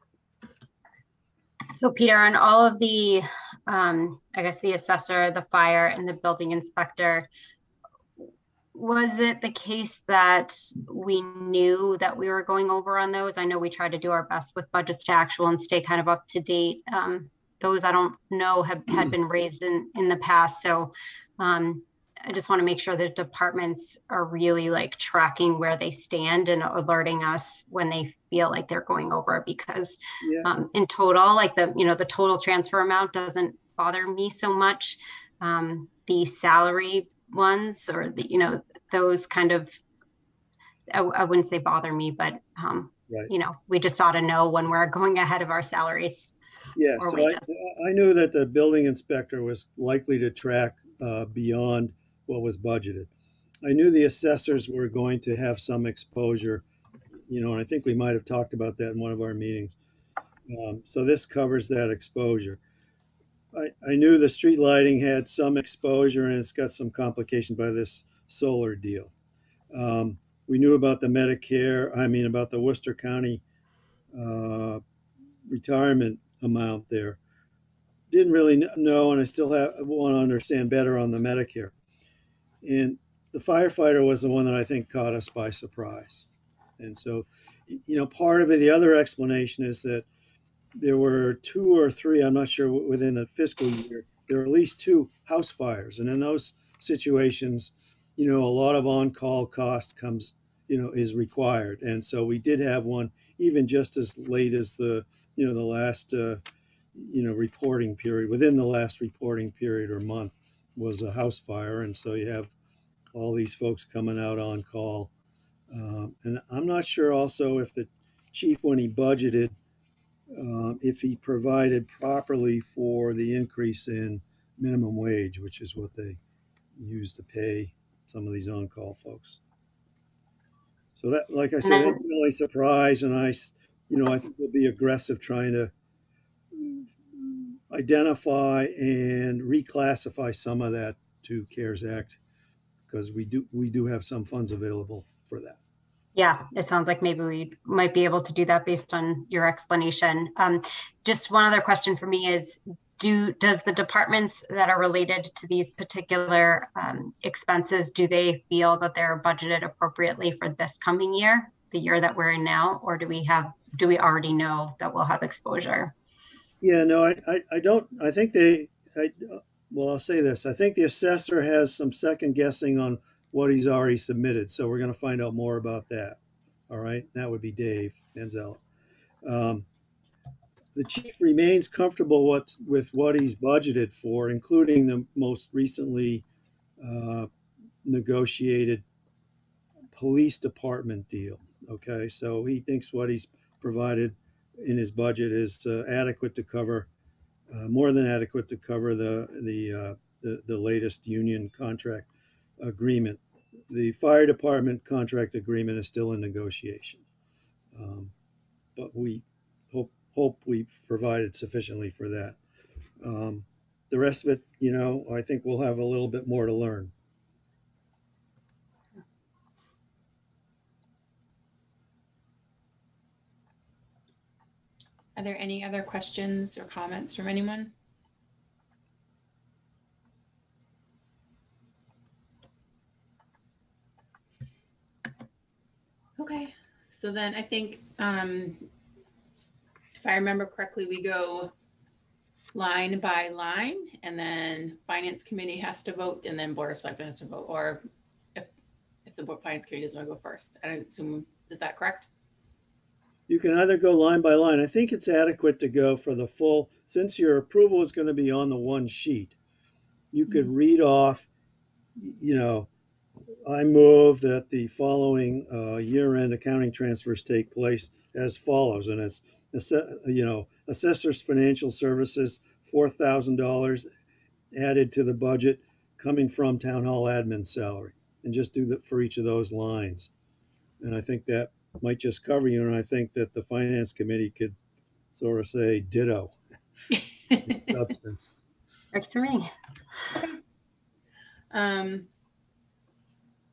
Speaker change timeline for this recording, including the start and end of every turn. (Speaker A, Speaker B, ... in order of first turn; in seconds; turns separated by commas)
Speaker A: 1.8-7.3, Speaker A: 8.7-39.8, Speaker B: 30.2-30.5, Speaker A: 40.9-46.3, Speaker B: 46.7-53.1, Speaker A: 47.0-47.4, Speaker B: 53.6-56.6, Speaker B: 57.3-59.8, Speaker B: 60.5-62.6, Speaker B: 63.5-69.1, Speaker B: 69.7-73.4, Speaker B: 74.1-74.8, Speaker B: 75.5-77.2, Speaker B: 78.1-81.7, Speaker B: 82.6-86.3, Speaker B: 86.8-90.1, Speaker B: 90.8-106.4, Speaker B: 106.9-112.5, Speaker B: 113.1-115.1, Speaker B: 115.7-119.5, Speaker B: 120.3-126.2, Speaker B: 126.8-129.4, Speaker B: 130.9-135.7, Speaker A: 131.6-132.0, Speaker B: 136.5-142.2, Speaker B: 142.9-145.6, Speaker A: 146.2-165.9, Speaker B: 166.6-178.6, Speaker B: 179.2-179.7, Speaker B: 180.7-186.2, Speaker B: 186.8-187.3, Speaker B: 187.8-188.8, Speaker B: 189.9-196.9, Speaker B: 197.5-202.1, Speaker B: 202.6-207.0, Speaker B: 207.7-208.1, Speaker B: 208.8-212.4, Speaker B: 213.0-216.9, Speaker C: 225.2-227.7, Speaker C: 236.2-238.6, Speaker C: 240.0-241.5, Speaker C: 242.5-247.8, Speaker C: 249.1-252.1, Speaker B: 253.3-259.4, Speaker B: 260.1-261.3, Speaker B: 261.9-262.7, Speaker B: 263.4-273.9, Speaker B: 274.5-280.1, Speaker B: 280.8-284.6, Speaker B: 285.1-286.3, Speaker C: 287.3-287.6, Speaker B: 287.4-288.4, Speaker A: 288.9-289.5, Speaker C: 291.5-292.1